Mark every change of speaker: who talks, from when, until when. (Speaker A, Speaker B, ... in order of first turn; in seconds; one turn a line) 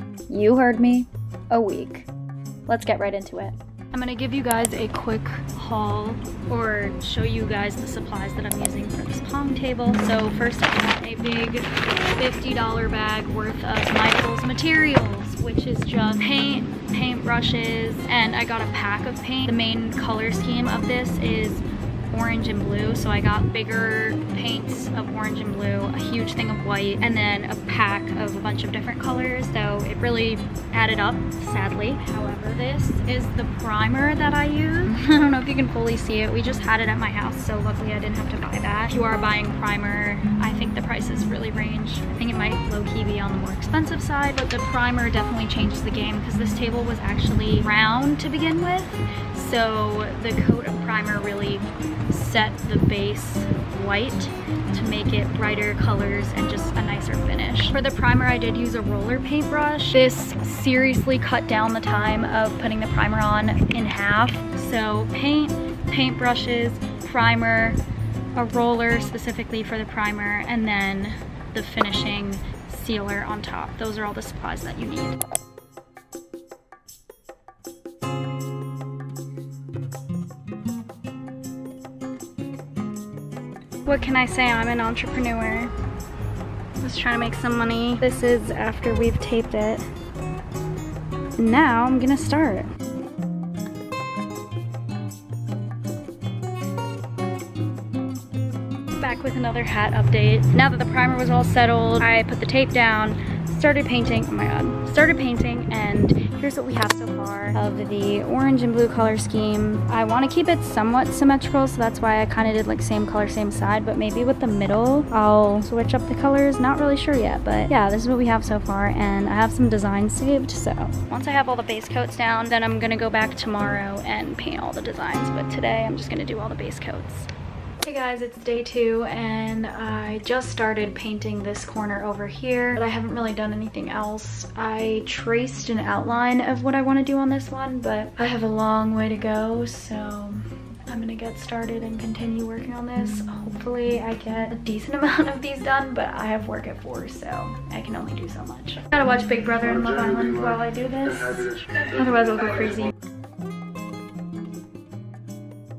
Speaker A: 0.3-2.1
Speaker A: 2.7-67.8
Speaker A: 68.3-75.2
Speaker A: 83.9-85.7
Speaker A: 86.8-89.8
Speaker A: 91.4-92.7
Speaker A: 99.0-127.3
Speaker A: 127.8-152.9